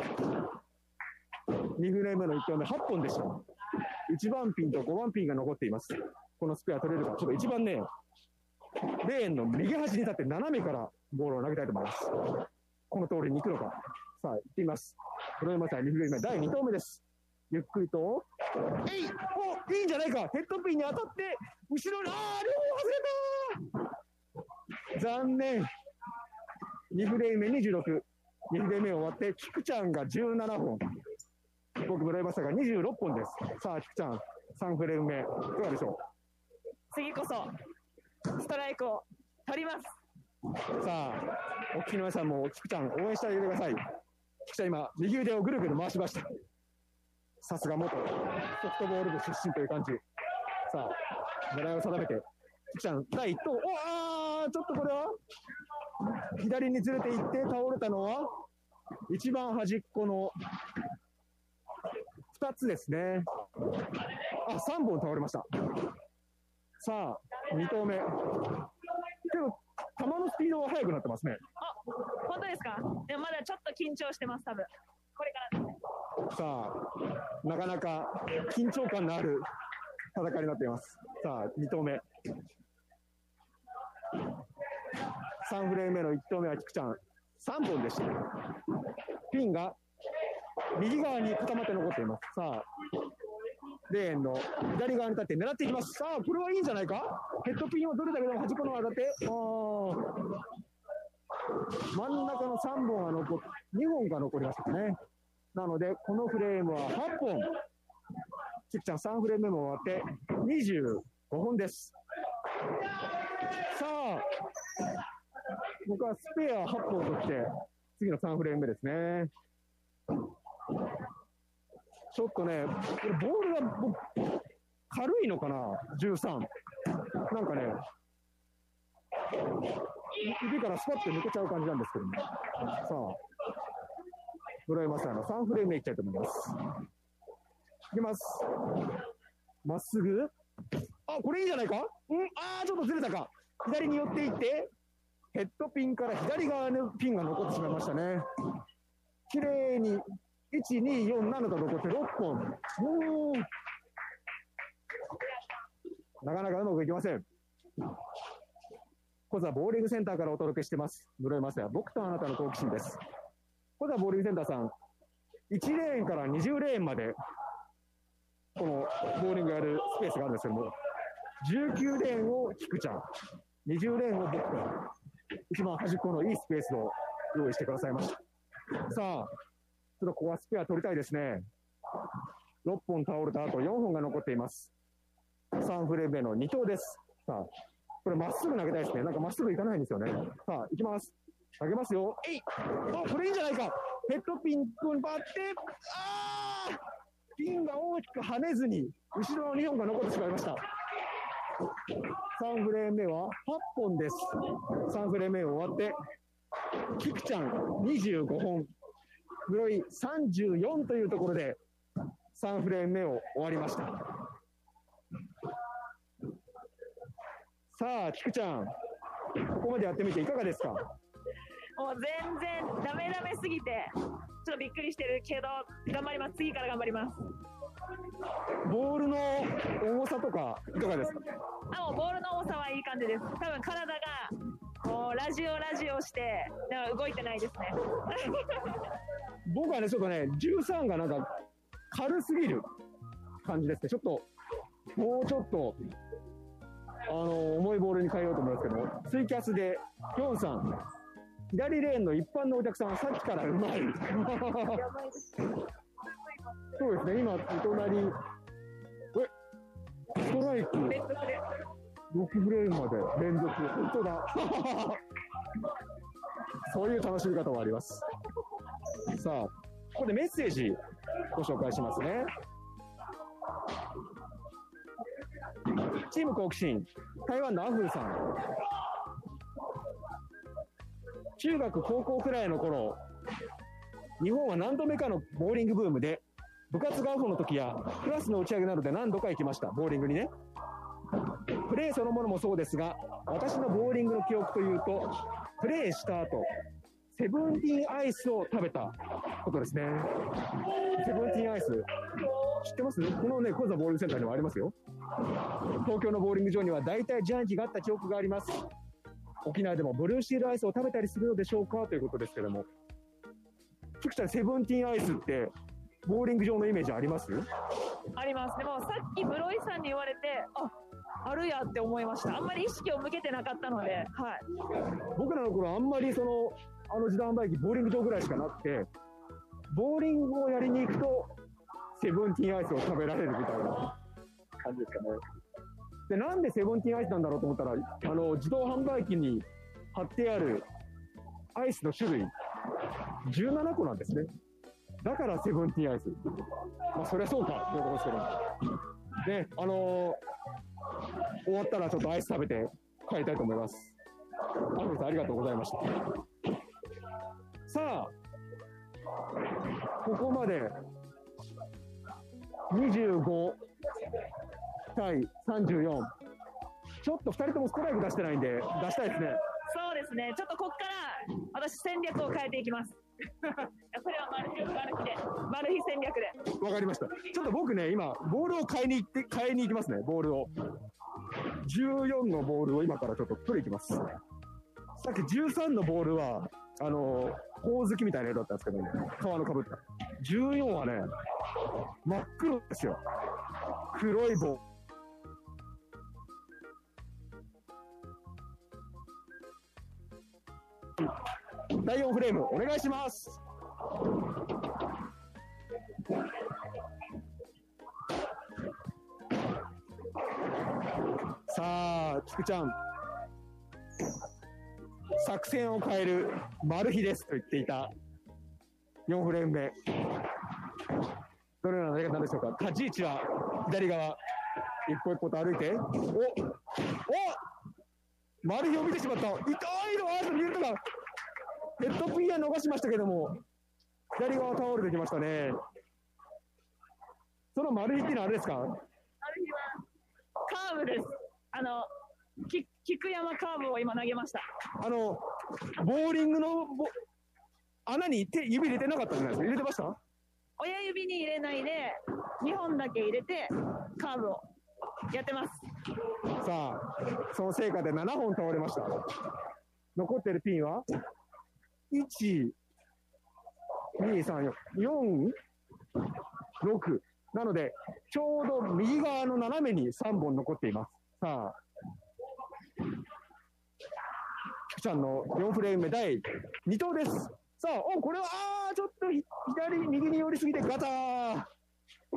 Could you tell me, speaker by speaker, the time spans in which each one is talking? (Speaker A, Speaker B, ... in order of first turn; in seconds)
Speaker A: 1.8-3.4, 4.1-7.9, 9.0-12.1, 12.9-23.8, 24.9-25.7, 26.9-30.9, 31.8-36.0, 40.8-43.8, 44.5-46.3, 47.4-50.0, 50.7-55.1, 56.3-58.3, 59.1-60.4, 62.3-63.3, 64.4-65.5, 66.8-68.5, 69.3-71.4, 76.3-79.5, 80.1-82.0, 85.4-88.3, 89.3-89.8, 90.8-92.7, 93.9-100.2, 101.9-105.0, 105.5-107.5, 108.7-111.9, 113.6-114.3, 115.8-119.3, 122.1-124.3, 124.9-126.5, 127.2-127.8, 130.1-133.2, 134.7-136.6, 137.9-138.6, 139.6-140.3, 141.1-144.7, 145.3-148.2, 149.3-153.5, 156.2-157.2, 159.3-163.0, 163.8-164.7, 165.5-167.2, 168.6-170.7, 171.4-173.0, 173.7-174.8, 175.5-178.2, 178.8-179.3, 180.0-181.4, 182.6-184.7, 185.6-187.5, 188.0-196.8, 197.3-200.6, 202.3-205.9, 206.9-208.7, 209.5-211.6, 212.3-214.2, 217.7-218.7, 219.4-220.9, 228.6-231.2, 239.5-241.3, 241.9-242.6, 243.4-244.2, 244.9-245.8, 247.1-250.8, 251.5-254.8, 256.8-258.1, 260.1-261.0, 262.1-265.0, 266.7-268.0, 269.1-270.8, 271.3-272.3, 275.8-278.3, 281.4-283.0, 284.2-290.3, 291.5-296.5, 297.1-300.1, 300.9-301.9, 302.6-304.7, 305.7-308.6, 309.4-312.7, 314.0-315.5, 316.1-317.4, 325.1-328.9, 329.7-331.3, 332.0-333.9, 334.6-335.2, 336.1-340.6, 341.5-342.3, 343.2-344.3, 345.0-346.2, 346.9-348.6, 349.2-350.2, 351.4-353.9, 354.6-356.1, 357.7-358.1, 360.0-360.8, 362.7-363.6, 364.9-366.1, 367.0-369.4, 376.5-380.5, 381.6-384.0, 385.0-391.1, 392.0-393.0, 393.9-394.6, 401.7-403.4, 411.5-412.7, 415.2-417.9, 419.1-419.8, 421.6-424.2, 424.9-427.4, 428.4-430.8, 431.8-433.4, 434.1-435.6, 437.5-438.7, 444.8-446.9, 447.9-450.0, 456.4-459.1, 459.9-460.8, 461.9-462.6, 464.0-465.4, 466.6-471.6, 474.7-481.5
Speaker B: 36.9-37.5, 38.3-40.0, 71.6-75.7, 221.8-227.3, 231.7-238.8, 254.6-255.5, 260.9-261.4, 318.1-324.4, 369.6-373.0, 373.5-376.4, 439.2-439.8, 440.4-441.9, 442.4-444.4, 450.6-454.4, 455.1-455.6